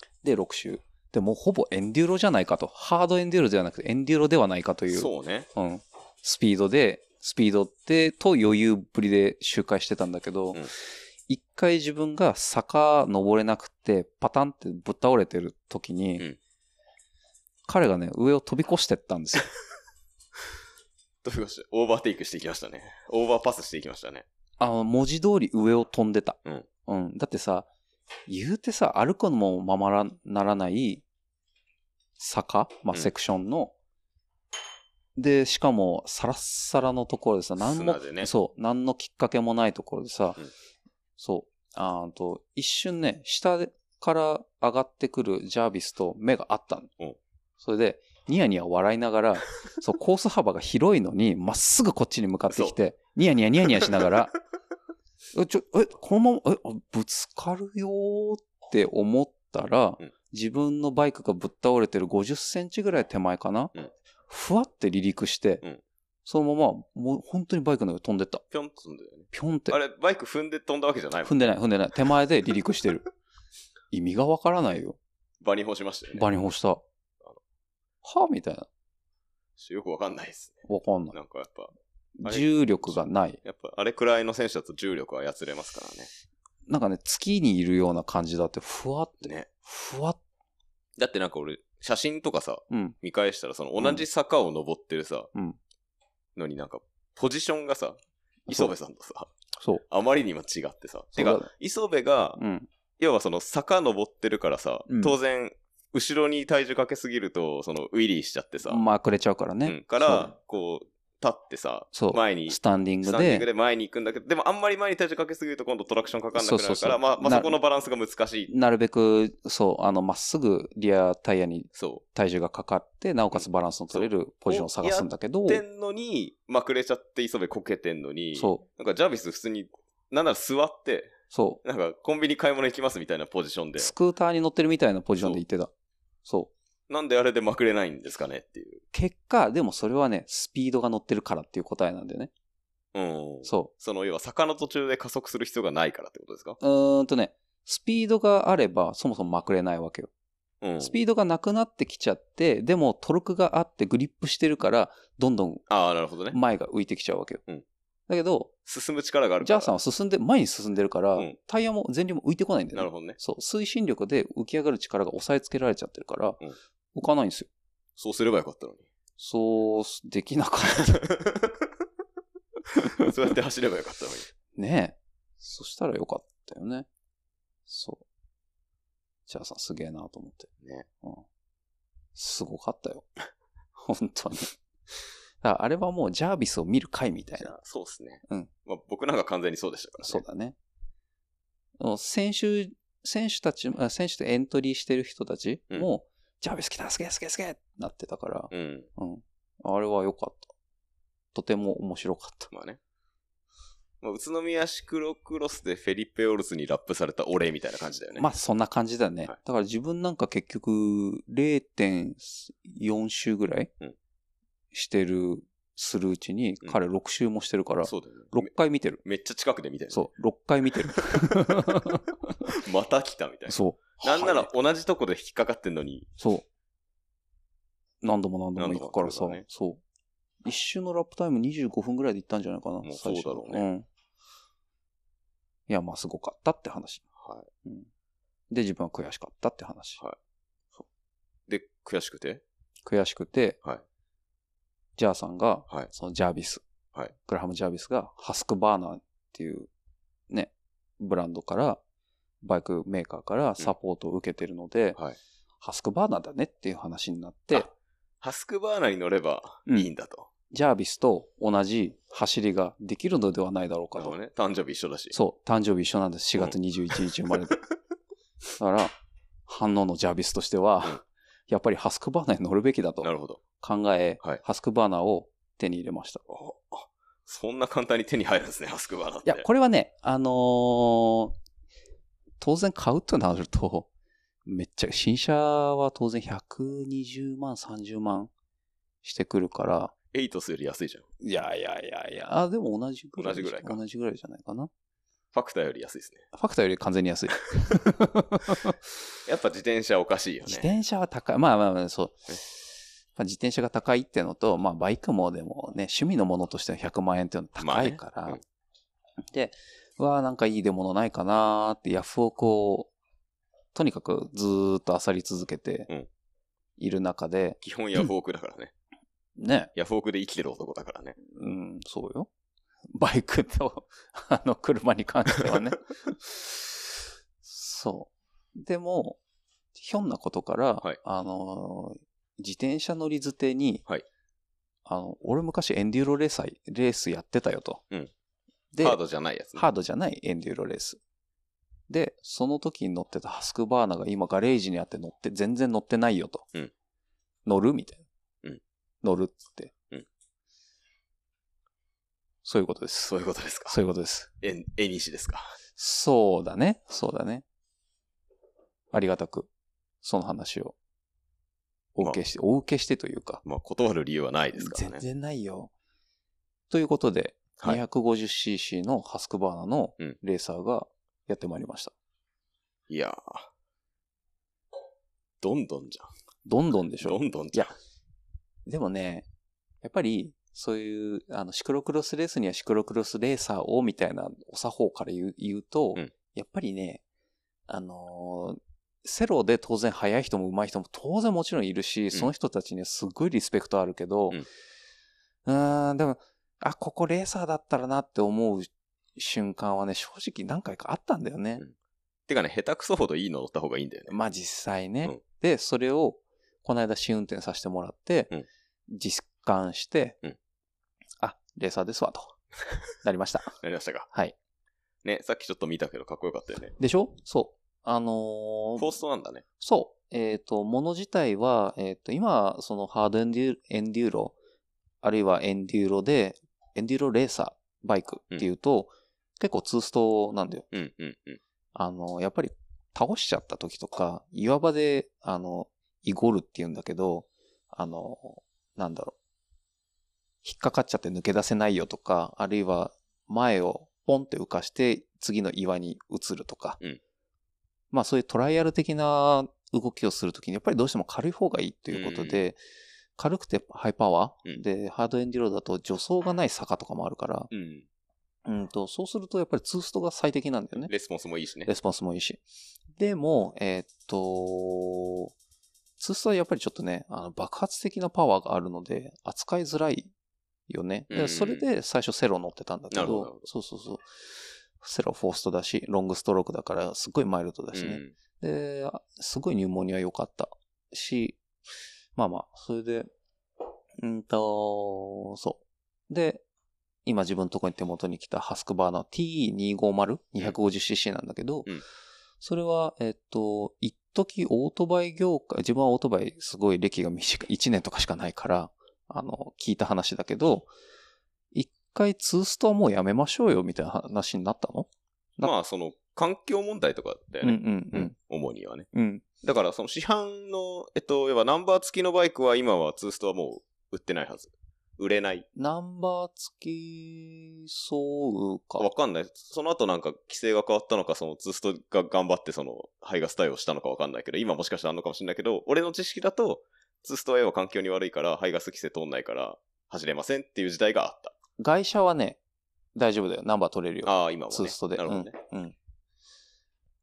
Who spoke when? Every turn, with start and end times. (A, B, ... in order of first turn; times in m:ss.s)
0:00.2-0:10.7 A
0:04.9-0:05.5 B
0:11.3-0:16.2 A
0:17.7-0:19.5 A
0:21.2-0:24.2 B
0:24.6-0:27.7 A
0:28.3-0:31.0 A
0:32.2-0:33.7 A
0:35.2-0:40.4 A
0:37.6-0:38.3 B
0:41.2-0:46.9 A
0:47.6-0:54.3 A
0:52.5-0:52.8 B
0:53.8-0:54.1 B
0:55.3-1:03.7 A
1:04.3-1:05.6 A
1:06.2-1:08.4 A
1:08.5-1:11.4 B
1:09.3-1:09.8 A
1:11.2-1:13.0 A
1:13.9-1:15.0 A
1:15.4-1:16.3 B
1:16.1-1:16.8 A
1:18.0-1:18.7 A
1:19.6-1:21.7 B
1:20.6-1:21.1 A
1:22.2-1:23.4 A
1:22.2-1:26.1 B
1:26.7-1:30.2 A
1:29.2-1:29.5 B
1:31.0-1:35.3 B
1:32.7-1:33.0 A
1:36.4-1:39.3 B
1:39.9-1:42.4 B
1:41.1-1:41.5 A
1:42.4-1:42.7 A
1:43.0-1:48.8 B
1:44.9-1:45.1 A
1:48.6-1:50.3 A
1:49.6-1:58.5 B
1:51.9-1:53.4 A
1:56.3-1:57.5 A
1:58.5-2:05.6 A
2:01.7-2:02.0 B
2:03.3-2:13.9 B
2:08.3-2:08.6 A
2:11.3-2:11.6 A
2:13.8-2:15.7 A
2:16.2-2:16.5 A
2:16.9-2:18.8 B
2:18.9-2:22.3 A
2:22.9-2:26.6 B
2:23.4-2:23.7 A
2:26.6-2:30.1 A
2:30.6-2:30.9 B
2:30.8-2:35.6 A
2:35.7-2:36.4 B
2:36.3-2:37.4 A
2:38.1-2:38.5 A
2:38.6-2:39.7 B
2:39.4-2:46.4 A
2:42.7-2:43.2 B
2:46.9-2:47.5 A
2:48.0-2:48.9 B
2:49.2-2:51.1 A
2:50.9-2:51.6 B
2:52.7-2:54.3 B
2:54.5-2:56.9 A
2:57.7-2:58.0 A
2:59.3-3:00.5 A
3:00.6-3:00.9 B
3:02.1-3:03.1 A
3:03.7-3:07.5 A
3:07.4-3:10.2 B
3:10.0-3:10.6 A
3:11.8-3:20.5 A
3:18.5-3:18.9 B
3:21.3-3:22.5 A
3:22.5-3:22.8 B
3:24.0-3:28.3 B
3:28.2-3:33.7 A
3:34.7-3:39.0 A
3:37.8-3:38.5 B
3:39.0-3:40.1 B
3:39.9-3:42.1 A
3:40.9-3:41.5 B
3:42.4-3:46.1 B
3:43.5-3:44.5 A
3:46.2-3:46.4 A
3:48.0-3:49.8 A
3:48.6-3:49.4 B
3:50.4-3:53.8 A
3:52.8-3:53.6 B
3:55.7-3:57.0 A
3:57.2-3:57.5 B
3:58.5-4:00.0 A
4:01.5-4:02.4 B
4:02.8-4:03.6 A
4:05.0-4:06.6 A
4:07.2-4:09.7 A
4:10.3-4:11.8 A
4:12.4-4:15.0 A
4:15.6-4:17.7 A
4:17.5-4:20.3 B
4:20.5-4:24.2 A
4:23.9-4:25.2 B
4:25.1-4:27.6 A
4:26.4-4:27.5 B
4:28.6-4:28.9 A
4:29.5-4:36.2 A
4:33.0-4:33.4 B
4:36.3-4:39.4 B
4:39.2-4:41.4 A
4:42.4-4:43.9 A
4:44.4-4:48.3 A
4:49.0-4:49.9 A
4:50.1-4:51.0 B
4:51.2-4:54.7 A
4:53.2-4:53.8 B
4:55.3-4:56.3 B
4:56.3-4:58.8 A
4:59.2-5:00.7 B
5:00.4-5:02.5 A
5:03.1-5:08.4 A
5:07.6-5:08.4 B
5:09.2-5:12.9 A
5:13.7-5:15.9 A
5:16.8-5:17.6 A
5:17.6-5:18.7 B
5:19.4-5:19.7 A
5:19.7-5:21.2 B
5:21.2-5:22.3 A
5:22.9-5:26.8 A
5:27.4-5:29.2 A
5:29.7-5:33.8 A
5:34.8-5:37.8 A
5:38.7-5:39.0 A
5:38.8-5:39.6 B
5:39.5-5:41.0 A
5:41.9-5:46.4 A
5:47.4-5:48.0 A
5:49.0-5:49.7 A
5:52.4-5:53.1 A
5:53.0-5:53.8 B
5:53.7-5:54.3 A
5:54.4-5:55.5 B
5:55.8-5:57.4 A
5:58.9-5:59.5 A
6:00.0-6:00.7 A
6:01.9-6:03.4 A
6:03.4-6:05.0 B
6:04.6-6:05.7 A
6:06.7-6:11.9 A
6:12.9-6:13.5 B
6:15.4-6:16.1 B
6:16.4-6:17.7 A
6:17.0-6:17.7 B
6:18.7-6:19.2 A
6:19.8-6:27.0 A
6:27.7-6:34.4 A
6:35.4-6:41.6 A
6:42.3-6:44.1 B
6:44.1-6:48.3 A
6:48.9-6:50.2 A
6:51.2-6:52.4 A
6:53.0-6:53.6 A
6:53.6-6:54.1 B
6:55.0-6:56.7 B
6:56.8-6:58.9 A
6:58.8-6:59.4 B
6:59.6-7:04.4 A
7:05.0-7:10.6 A
7:10.7-7:11.4 B
7:11.7-7:19.1 A
7:20.4-7:26.8 A
7:27.9-7:32.6 A
7:31.9-7:32.4 B
7:33.2-7:37.5 A
7:37.5-7:37.9 B
7:38.4-7:40.9 A
7:40.8-7:41.7 B
7:41.7-7:42.4 A
7:42.9-7:45.3 A
7:46.0-7:50.1 A
7:50.7-7:54.2 A
7:51.1-7:51.6 B
7:52.9-7:53.5 B
7:54.8-8:01.4 A
7:57.7-7:58.1 B
8:02.2-8:03.1 A
8:04.0-8:06.4 A
8:07.0-8:11.7 A
8:12.4-8:20.7 A
8:21.5-8:25.5 A
8:25.4-8:28.9 B
8:27.4-8:28.1 A
8:28.9-8:29.2 A
8:29.4-8:35.4 B
8:35.6-8:38.9 A
8:38.8-8:51.3 B
8:51.6-8:52.4 A
8:52.9-8:55.7 A
8:54.0-8:55.4 B